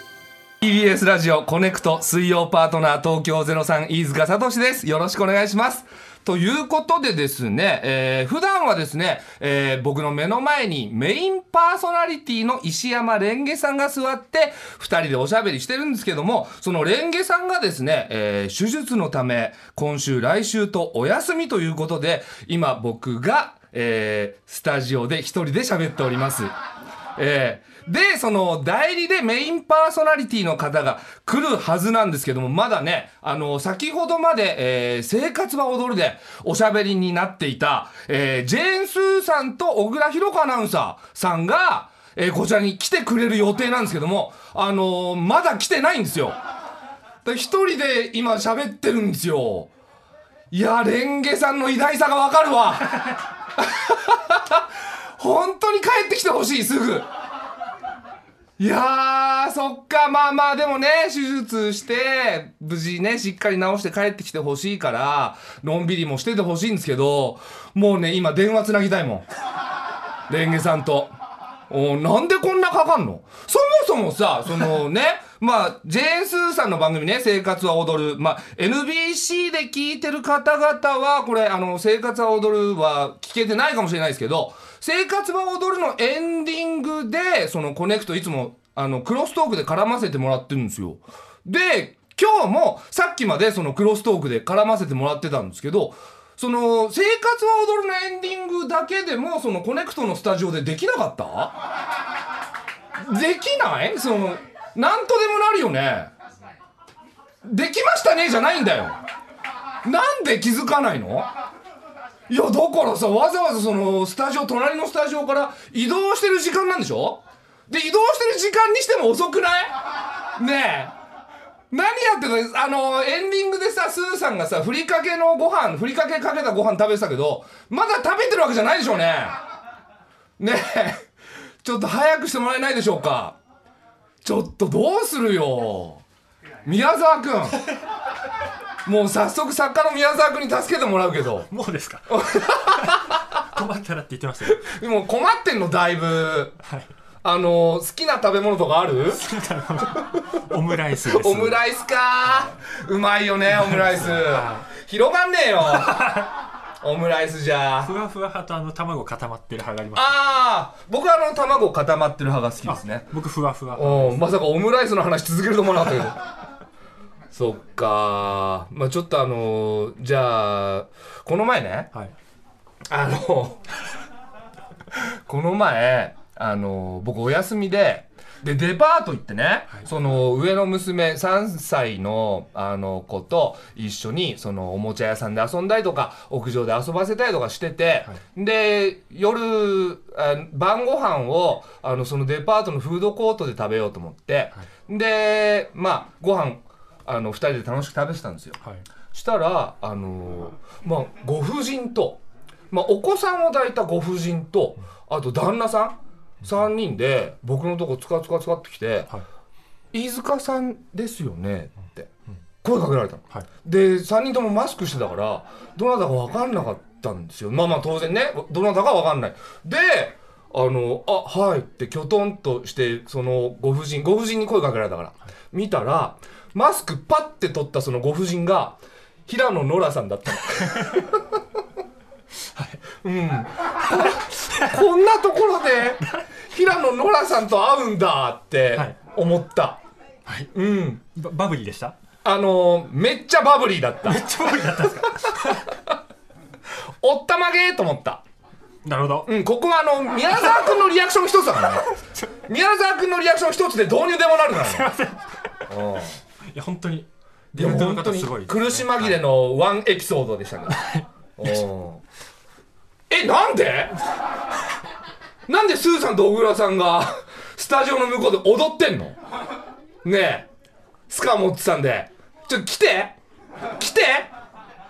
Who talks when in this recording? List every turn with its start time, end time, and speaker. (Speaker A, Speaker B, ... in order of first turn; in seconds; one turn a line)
Speaker A: 0.6-26.5
Speaker A: 27.2-46.4
Speaker A: 47.2-49.7
Speaker A: 50.5-54.6
Speaker A: 55.2-57.1
Speaker A: 58.6-69.3
Speaker A: 70.3-71.1
Speaker A: 71.7-101.6
Speaker A: 103.0-106.1
Speaker A: 107.5-109.0
Speaker A: 109.8-111.3
Speaker A: 112.3-119.7
Speaker A: 120.4-120.9
Speaker A: 121.7-129.4
Speaker A: 130.4-131.0
Speaker A: 131.6-133.4
Speaker A: 134.2-136.0
Speaker A: 136.7-137.6
Speaker A: 138.9-141.5
Speaker B: 141.5-142.1
Speaker A: 142.1-143.2
Speaker B: 143.5-144.7
Speaker A: 144.5-146.6
Speaker A: 147.2-149.2
Speaker B: 149.1-151.6
Speaker A: 151.1-156.2
Speaker B: 153.5-154.7
Speaker B: 155.7-156.3
Speaker A: 156.8-158.0
Speaker B: 157.8-160.2
Speaker A: 159.9-163.1
Speaker B: 162.7-164.2
Speaker A: 163.8-166.2
Speaker A: 167.3-171.9
Speaker A: 172.9-173.6
Speaker A: 175.0-198.6
Speaker A: 199.1-202.2
Speaker A: 202.7-209.1
Speaker A: 209.9-212.1
Speaker A: 212.6-231.2
Speaker A: 233.0-239.8
Speaker B: 234.1-234.7
Speaker A: 240.5-241.0
Speaker B: 241.0-242.0
Speaker A: 242.2-244.3
Speaker B: 244.1-245.7
Speaker A: 247.0-248.2
Speaker B: 248.8-249.3
Speaker A: 249.3-254.9
Speaker B: 254.5-255.5
Speaker A: 255.7-256.2
Speaker B: 256.5-259.2
Speaker A: 257.5-262.0
Speaker A: 263.1-264.0
Speaker A: 265.5-269.2
Speaker A: 270.0-270.5
Speaker A: 271.1-273.1
Speaker A: 273.8-274.3